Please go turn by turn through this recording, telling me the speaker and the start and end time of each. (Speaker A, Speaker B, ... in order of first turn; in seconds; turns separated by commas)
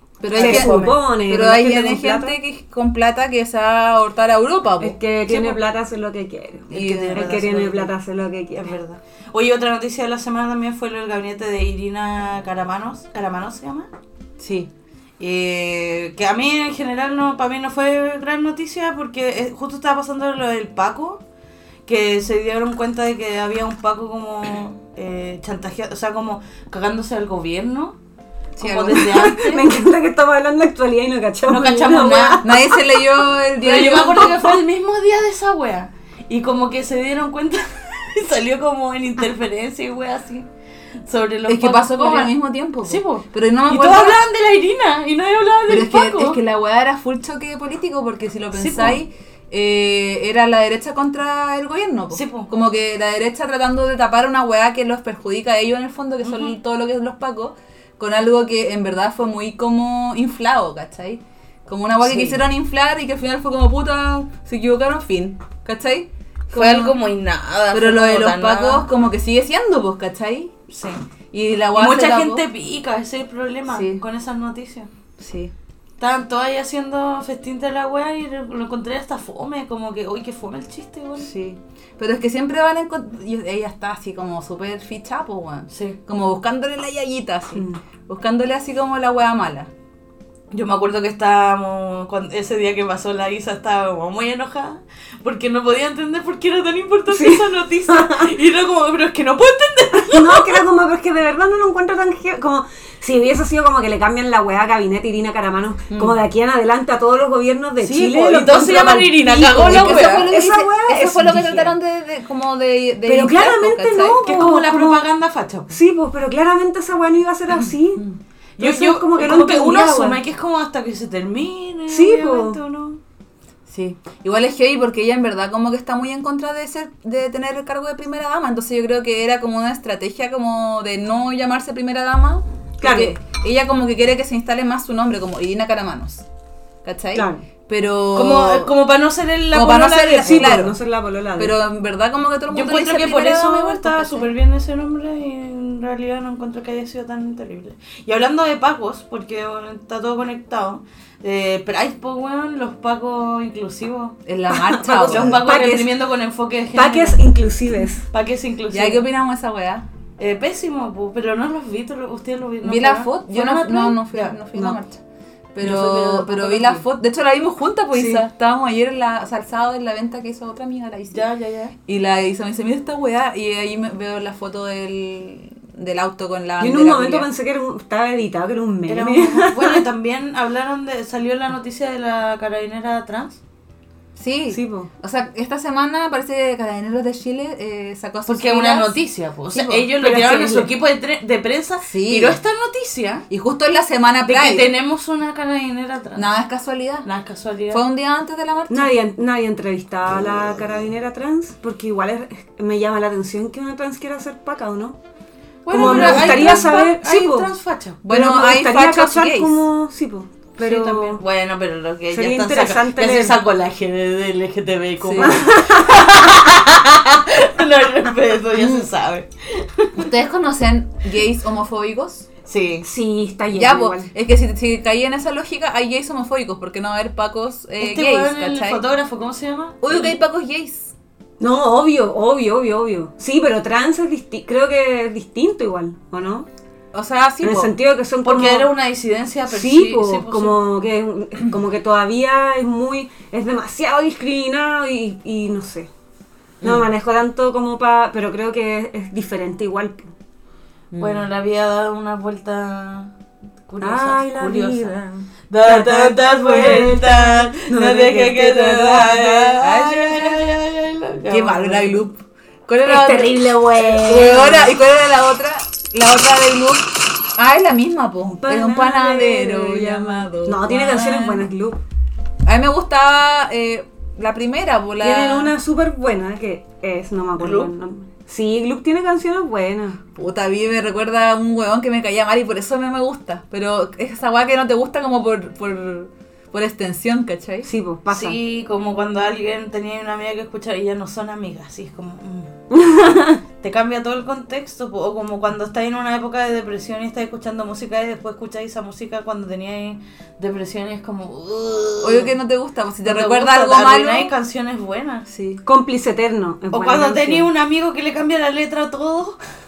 Speaker A: 0.2-5.0, Speaker B: 0.3-1.0, Speaker C: 0.4-2.4, Speaker C: 4.8-8.7, Speaker B: 5.3-5.6, Speaker B: 6.7-7.9, Speaker A: 6.7-7.3, Speaker B: 8.6-13.9, Speaker A: 14.4-14.7, Speaker B: 15.2-21.2, Speaker B: 21.9-28.0, Speaker A: 28.6-29.1, Speaker B: 28.6-29.7, Speaker C: 28.9-32.5, Speaker B: 31.5-32.4, Speaker A: 32.4-34.6, Speaker B: 33.6-40.5, Speaker B: 41.1-46.4, Speaker A: 41.5-44.2, Speaker A: 45.7-67.0, Speaker B: 48.5-49.0, Speaker B: 52.1-52.5, Speaker B: 56.2-56.5, Speaker B: 62.0-62.4, Speaker B: 66.5-68.9, Speaker A: 67.7-70.5, Speaker B: 70.7-71.0, Speaker A: 71.3-72.4, Speaker B: 71.8-74.9, Speaker A: 73.7-74.0, Speaker A: 75.2-75.5, Speaker B: 76.0-81.3, Speaker A: 81.2-89.7, Speaker B: 85.7-86.0, Speaker B: 90.5-100.6, Speaker C: 97.1-98.3, Speaker C: 100.0-111.8, Speaker A: 105.9-106.2, Speaker B: 107.8-110.3, Speaker A: 109.5-114.2, Speaker C: 113.0-115.0, Speaker B: 114.3-115.8, Speaker C: 115.7-118.0, Speaker B: 118.6-123.0, Speaker C: 118.6-120.2, Speaker C: 121.9-122.6, Speaker A: 123.7-136.3, Speaker C: 132.8-133.2, Speaker A: 136.8-138.7, Speaker C: 137.1-137.4, Speaker B: 138.2-140.6, Speaker A: 139.5-140.8, Speaker C: 140.2-141.6, Speaker A: 141.4-144.3, Speaker B: 142.5-154.2, Speaker A: 154.2-155.4, Speaker C: 154.5-155.9, Speaker B: 154.9-157.2, Speaker C: 156.7-158.1, Speaker B: 158.1-159.1, Speaker A: 158.7-159.9, Speaker B: 160.2-164.8, Speaker A: 162.6-165.0, Speaker A: 165.6-171.2, Speaker B: 165.6-166.8, Speaker C: 167.9-168.2, Speaker B: 171.1-171.8, Speaker A: 171.9-177.3, Speaker C: 176.6-179.8, Speaker B: 178.9-183.4, Speaker A: 184.2-188.9, Speaker C: 184.5-184.9, Speaker B: 188.3-193.3, Speaker A: 189.5-190.7, Speaker C: 190.0-190.7, Speaker A: 191.9-192.4, Speaker A: 193.3-194.7, Speaker B: 194.2-196.3, Speaker A: 196.2-197.1, Speaker B: 197.0-197.8, Speaker A: 197.7-198.9, Speaker C: 198.7-205.0, Speaker B: 205.7-208.0, Speaker C: 205.7-207.5, Speaker A: 205.7-206.8, Speaker A: 208.0-209.6, Speaker C: 208.1-211.2, Speaker B: 210.6-220.1, Speaker C: 212.1-213.4, Speaker A: 215.0-215.4, Speaker C: 215.2-216.0, Speaker A: 218.6-218.9, Speaker A: 220.0-222.3, Speaker B: 222.4-222.9, Speaker C: 222.8-224.1, Speaker A: 223.6-228.8, Speaker B: 227.8-230.2, Speaker A: 229.8-230.9, Speaker C: 231.4-236.5, Speaker A: 236.9-237.8, Speaker C: 237.4-238.7, Speaker B: 238.2-240.6, Speaker C: 239.5-245.9, Speaker A: 246.6-246.9, Speaker C: 246.6-250.1, Speaker A: 250.9-251.3, Speaker B: 251.0-253.1, Speaker B: 253.7-262.1, Speaker C: 253.8-259.6, Speaker A: 259.6-260.4, Speaker A: 261.3-271.5, Speaker C: 262.9-264.6, Speaker B: 263.4-264.7, Speaker C: 268.4-271.8, Speaker A: 272.4-275.5, Speaker C: 275.0-280.0, Speaker B: 277.4-277.7, Speaker A: 280.1-287.7, Speaker C: 287.6-288.4, Speaker B: 288.1-292.5, Speaker C: 292.7-293.4, Speaker B: 293.6-302.3, Speaker A: 302.0-304.3, Speaker B: 303.0-305.3, Speaker A: 305.3-305.6, Speaker C: 305.6-307.5, Speaker B: 306.7-309.4